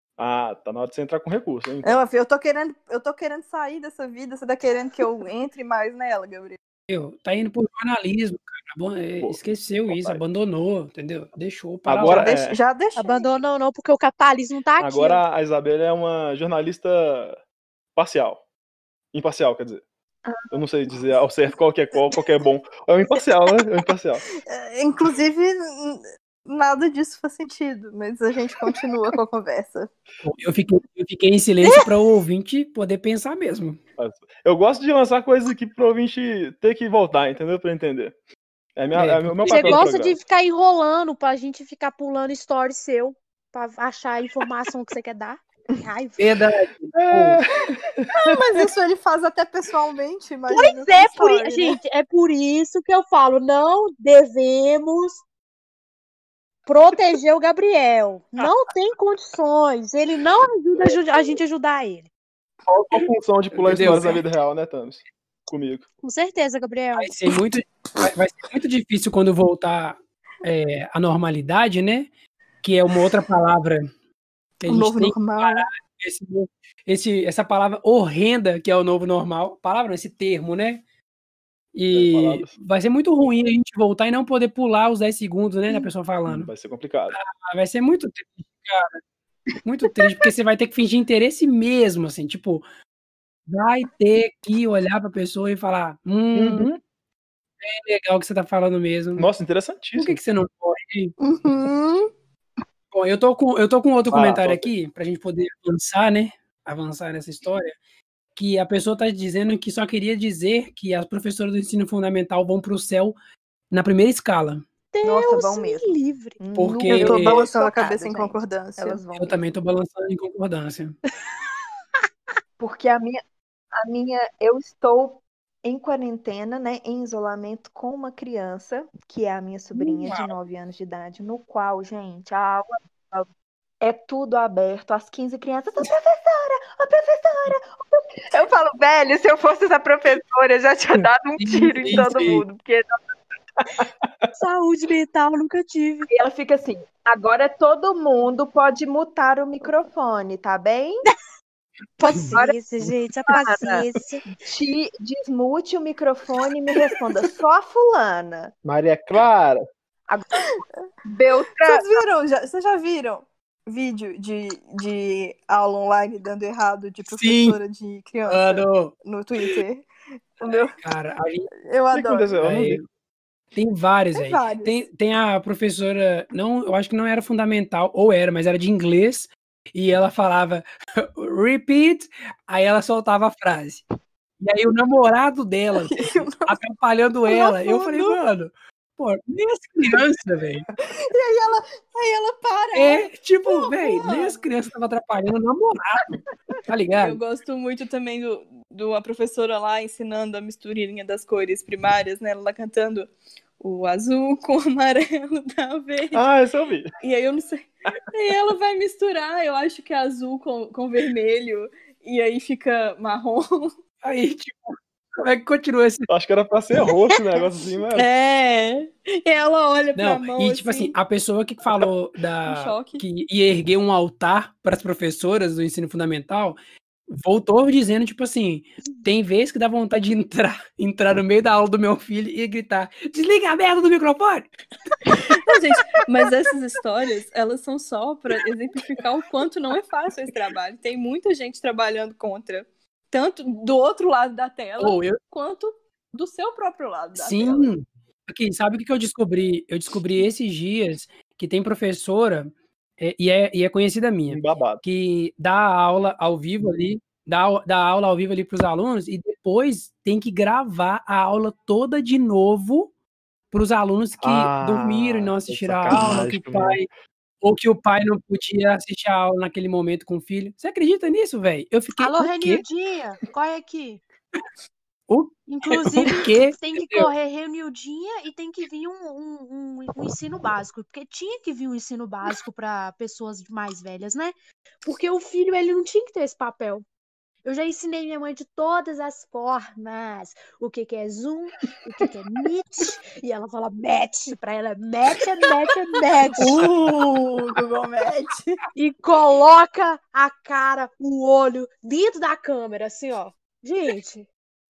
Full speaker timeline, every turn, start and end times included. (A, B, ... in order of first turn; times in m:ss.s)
0:00.2-0:02.0 A
0:01.8-0:06.6 B
0:06.9-0:12.3 C
0:09.2-0:10.2 A
0:11.8-0:12.6 A
0:12.0-0:13.2 B
0:13.0-0:15.2 D
0:14.8-0:17.4 A
0:18.0-0:18.4 A
0:19.1-0:19.8 A
0:20.5-0:24.2 A
0:24.4-0:29.9 B
0:30.2-0:33.8 C
0:34.0-0:38.2 A
0:38.8-0:40.2 A
0:38.9-0:39.9 C
0:39.4-0:46.3 D
0:46.2-0:47.4 C
0:46.9-0:48.3 A
0:48.1-0:51.8 B
0:50.5-0:55.2 D
0:56.6-1:02.1 D
1:00.8-1:01.2 A
1:02.7-1:05.8 A
1:03.5-1:04.2 C
1:06.0-1:07.1 D
1:07.0-1:12.1 C
1:12.6-1:13.9 C
1:14.6-1:20.8 C
1:14.6-1:15.7 B
1:21.7-1:26.5 C
1:21.9-1:22.5 A
1:26.2-1:27.2 A
1:27.1-1:29.0 C
1:29.6-1:32.6 C
1:33.5-1:36.7 C
1:36.3-1:36.8 A
1:37.6-1:39.3 C
1:39.2-1:40.2 A
1:40.0-1:41.1 C
1:41.2-1:42.1 B
1:42.9-1:47.8 C
1:44.1-1:44.7 A
1:48.4-1:53.2 C
1:53.7-1:54.6 C
1:54.9-1:56.4 D
1:55.0-1:59.4 E
1:56.6-1:57.4 C
1:56.9-1:59.0 B
1:59.1-2:01.0 C
2:02.6-2:03.2 E
2:03.7-2:13.3 E
2:13.8-2:22.9 E
2:21.4-2:22.4 C
2:23.7-2:24.3 A
2:24.4-2:26.1 D
2:26.1-2:31.1 E
2:32.0-2:34.2 D
2:32.3-2:32.6 E
2:33.2-2:33.8 E
2:34.4-2:38.5 E
2:38.6-2:39.6 A
2:40.1-2:40.4 E
2:41.1-2:42.0 E
2:41.6-2:49.9 B
2:47.0-2:47.6 C
2:48.3-2:48.9 C
2:50.4-2:50.8 B
2:50.5-2:51.5 C
2:51.6-2:52.3 B
2:51.9-2:52.8 A
2:52.4-2:52.8 C
2:53.5-3:03.8 C
2:54.1-2:54.8 B
3:04.4-3:10.6 C
3:05.8-3:06.6 B
3:07.3-3:08.2 B
3:10.8-3:14.4 B
3:12.7-3:16.1 C
3:16.7-3:17.2 C
3:17.0-3:26.2 B
3:26.1-3:26.9 A
3:27.0-3:33.7 B
3:34.0-3:36.1 C
3:36.1-3:38.1 A
3:37.9-3:41.0 B
3:40.0-3:54.5 C
3:42.4-3:43.0 B
3:55.0-4:07.7 B
4:04.8-4:05.2 C
4:07.1-4:22.9 C
4:14.3-4:14.8 A
4:23.5-4:26.9 C
4:24.2-4:26.8 A
4:27.4-4:32.6 C
4:32.0-4:34.0 D
4:35.1-4:37.1 C
4:35.5-4:44.3 D
4:44.8-4:46.8 D
4:47.4-4:56.7 D
4:56.4-4:58.6 B
4:58.7-5:04.2 D